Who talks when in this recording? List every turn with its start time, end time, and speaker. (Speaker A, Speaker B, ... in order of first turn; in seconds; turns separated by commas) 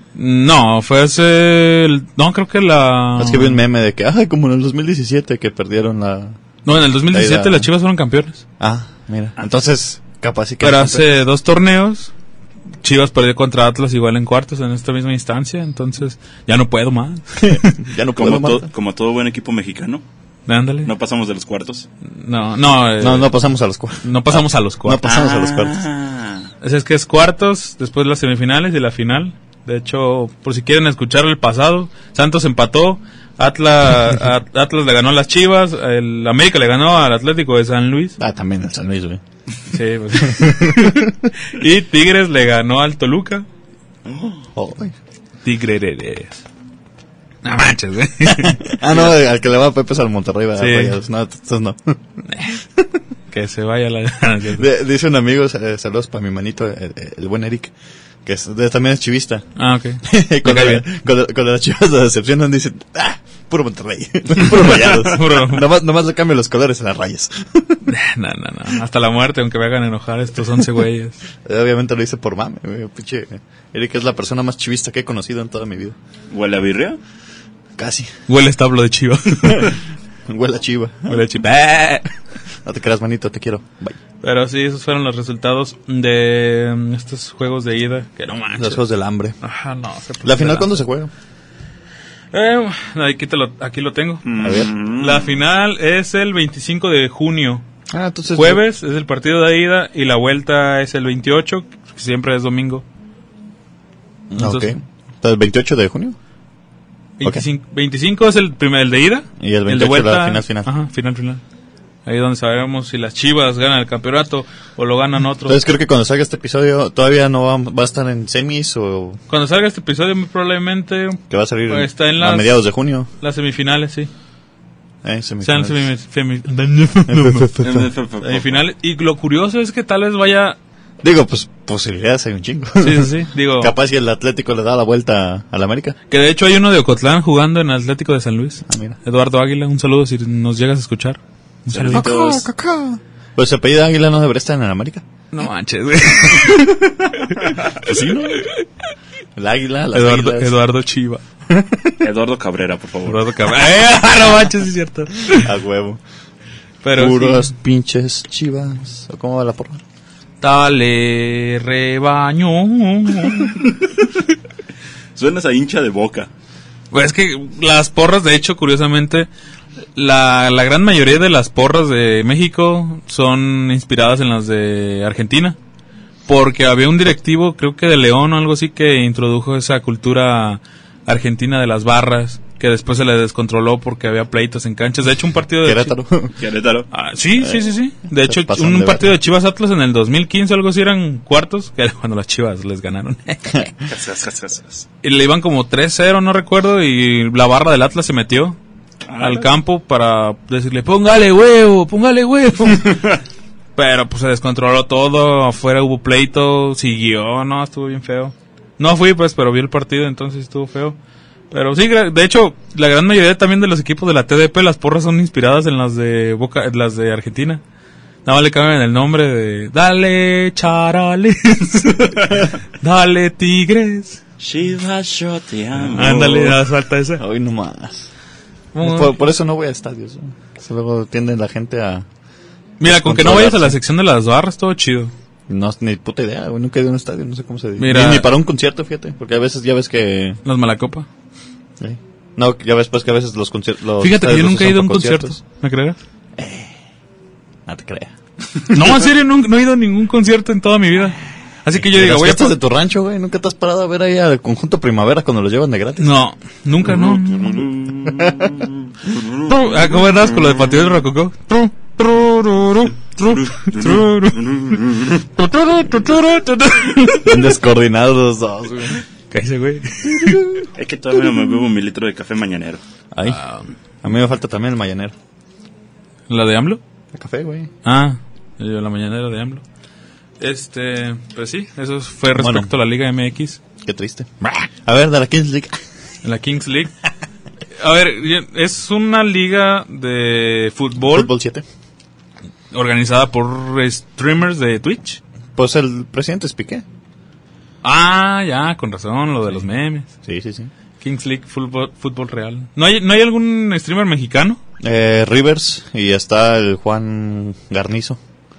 Speaker A: 0.1-3.6, Speaker B: 3.2-6.4, Speaker A: 6.7-8.4, Speaker B: 7.0-7.7, Speaker B: 8.6-11.2, Speaker A: 10.6-12.1, Speaker A: 12.8-17.8, Speaker B: 17.4-18.7, Speaker C: 18.2-20.0, Speaker A: 20.5-20.9, Speaker C: 20.9-21.9, Speaker A: 22.1-23.3, Speaker B: 23.0-25.8, Speaker A: 24.0-25.0, Speaker C: 25.0-26.5, Speaker A: 26.6-38.2, Speaker B: 38.2-39.2, Speaker A: 39.7-43.5, Speaker B: 40.1-41.3, Speaker C: 44.1-44.4, Speaker B: 44.5-45.0, Speaker A: 45.4-46.5, Speaker A: 47.4-48.8, Speaker B: 48.3-52.0, Speaker A: 50.6-51.0, Speaker A: 52.3-52.6, Speaker A: 53.3-54.7, Speaker B: 54.5-57.7, Speaker B: 58.2-59.5, Speaker A: 59.6-60.9, Speaker B: 60.0-67.8, Speaker A: 64.6-65.7, Speaker A: 67.8-71.2, Speaker B: 71.5-76.0, Speaker C: 76.3-77.0, Speaker B: 77.8-78.1, Speaker A: 78.3-79.8, Speaker B: 79.5-79.8, Speaker B: 80.3-81.2, Speaker A: 81.1-82.1, Speaker B: 82.6-84.0, Speaker A: 84.2-88.8, Speaker B: 88.6-89.4, Speaker A: 89.4-90.8, Speaker B: 90.2-91.1, Speaker A: 92.3-94.3, Speaker C: 94.2-95.3, Speaker B: 94.4-94.7, Speaker A: 94.8-97.6, Speaker B: 97.9-98.6, Speaker A: 98.3-102.8, Speaker B: 104.3-106.2, Speaker A: 104.4-104.7, Speaker A: 107.2-111.4, Speaker B: 109.4-110.7, Speaker A: 112.1-115.6, Speaker B: 115.5-119.2, Speaker A: 119.3-122.6, Speaker B: 121.3-123.1, Speaker A: 123.2-124.1, Speaker B: 125.0-125.9, Speaker A: 125.4-127.6, Speaker B: 127.1-127.9, Speaker C: 127.6-128.6, Speaker A: 128.2-130.6, Speaker B: 131.0-136.0, Speaker A: 132.8-133.7, Speaker A: 136.1-142.4, Speaker B: 138.7-139.0, Speaker C: 141.7-142.1, Speaker B: 141.9-145.1, Speaker A: 145.3-147.5, Speaker B: 147.8-148.5, Speaker A: 148.3-148.7, Speaker B: 149.4-150.6, Speaker A: 149.9-151.2, Speaker B: 151.5-152.0, Speaker C: 152.0-153.2, Speaker A: 153.1-155.5, Speaker B: 155.3-156.0, Speaker A: 156.8-157.5, Speaker B: 156.9-159.8, Speaker A: 160.4-163.6, Speaker C: 165.2-166.3, Speaker A: 166.9-169.3, Speaker A: 169.9-175.6, Speaker A: 176.3-186.0, Speaker B: 185.6-186.3, Speaker C: 186.4-186.9, Speaker A: 186.9-193.7, Speaker B: 187.4-189.2, Speaker C: 193.8-194.9, Speaker A: 195.0-198.6, Speaker C: 199.1-199.5, Speaker A: 199.2-203.1, Speaker A: 203.8-211.0, Speaker A: 211.5-217.6, Speaker A: 218.2-224.2, Speaker C: 224.4-226.6, Speaker A: 225.9-227.2, Speaker B: 227.2-228.1, Speaker A: 228.7-229.2, Speaker B: 228.8-232.1, Speaker A: 232.8-235.1, Speaker B: 232.8-233.8, Speaker B: 235.5-240.4, Speaker A: 237.8-238.3, Speaker A: 240.4-241.1, Speaker B: 241.8-245.4, Speaker A: 244.0-246.0, Speaker B: 246.4-246.7, Speaker B: 247.7-248.8, Speaker A: 248.7-252.6, Speaker B: 251.7-256.1, Speaker A: 256.0-257.7, Speaker C: 256.9-260.2, Speaker B: 258.1-258.6, Speaker A: 259.4-264.4, Speaker C: 263.3-265.3, Speaker A: 265.4-267.5, Speaker B: 267.2-269.0, Speaker A: 269.3-270.6, Speaker B: 270.1-270.6, Speaker C: 270.8-272.8, Speaker B: 273.1-273.4, Speaker A: 273.3-273.7, Speaker B: 274.0-275.1, Speaker A: 276.3-276.8, Speaker B: 277.1-277.7, Speaker A: 277.8-279.6, Speaker A: 280.4-283.6, Speaker B: 282.3-282.7, Speaker B: 283.8-284.3, Speaker B: 284.8-285.8, Speaker A: 286.2-286.9, Speaker A: 287.7-291.3, Speaker B: 291.1-291.6, Speaker A: 292.7-295.2, Speaker B: 295.6-296.8, Speaker A: 297.8-300.1, Speaker B: 300.2-300.7, Speaker A: 301.0-304.6, Speaker B: 304.8-308.2